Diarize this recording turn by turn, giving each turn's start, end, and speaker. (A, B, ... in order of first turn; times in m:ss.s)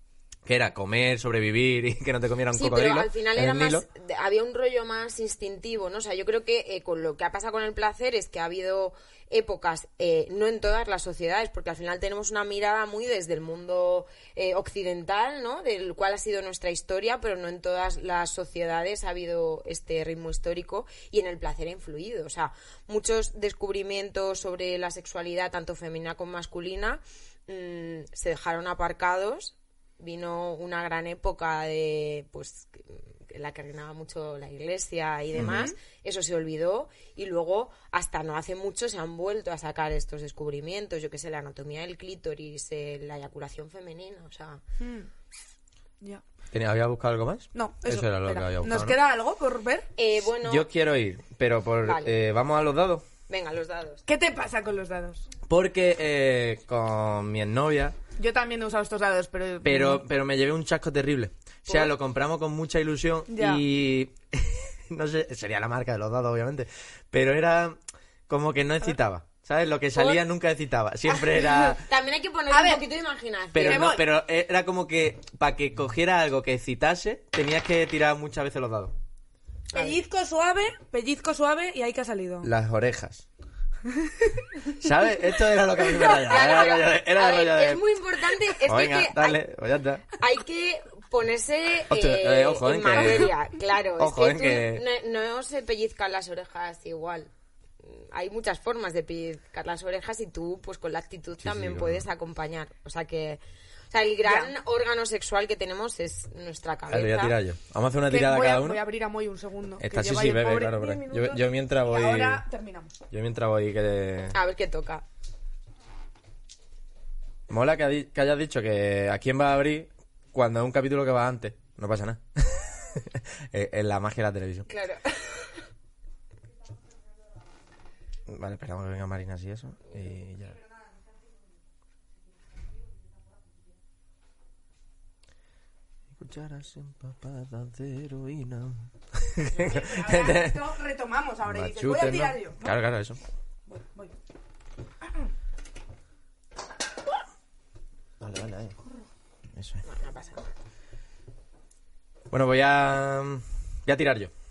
0:00.5-0:03.8 A
0:02.5-0:44.6 B
0:35.4-0:35.7 A
0:35.4-0:35.7 C
0:44.8-0:45.1 C
0:46.5-0:49.0 A
0:47.5-0:49.9 C
0:50.0-0:50.7 B
0:50.3-0:53.1 A
0:51.8-0:52.1 B
0:53.3-0:54.0 B
0:54.1-0:55.3 C
0:55.5-0:58.0 A
0:58.2-1:00.0 C
0:59.6-1:07.8 A
1:03.3-1:03.6 C
1:08.3-1:11.8 A
1:10.0-1:10.2 B
1:11.4-1:11.8 C
1:11.9-1:14.0 B
1:12.5-1:12.8 C
1:13.5-1:18.9 A
1:13.6-1:14.0 C
1:19.7-1:20.0 B
1:19.7-1:22.5 C
1:22.4-1:23.2 A
1:24.0-1:24.4 C
1:24.8-1:27.8 A
1:26.0-1:29.4 B
1:28.7-1:30.0 A
1:30.2-1:43.4 B
1:31.9-1:33.4 A
1:33.0-1:33.3 C
1:34.0-1:34.8 A
1:41.4-1:42.1 A
1:43.9-1:47.4 B
1:44.2-1:44.5 C
1:46.9-1:48.8 A
1:48.1-1:53.0 C
1:49.8-1:52.4 A
1:53.1-1:54.4 A
1:54.3-1:55.0 B
1:57.5-2:04.7 A
2:04.7-2:05.5 B
2:08.3-2:10.6 A
2:16.1-2:20.6 A
2:19.6-2:20.3 B
2:19.6-2:22.8 C
2:21.5-2:23.2 A
2:23.7-2:24.1 C
2:28.2-2:28.8 A
2:29.6-2:29.8 A
2:29.9-2:30.5 B
2:32.3-2:34.3 A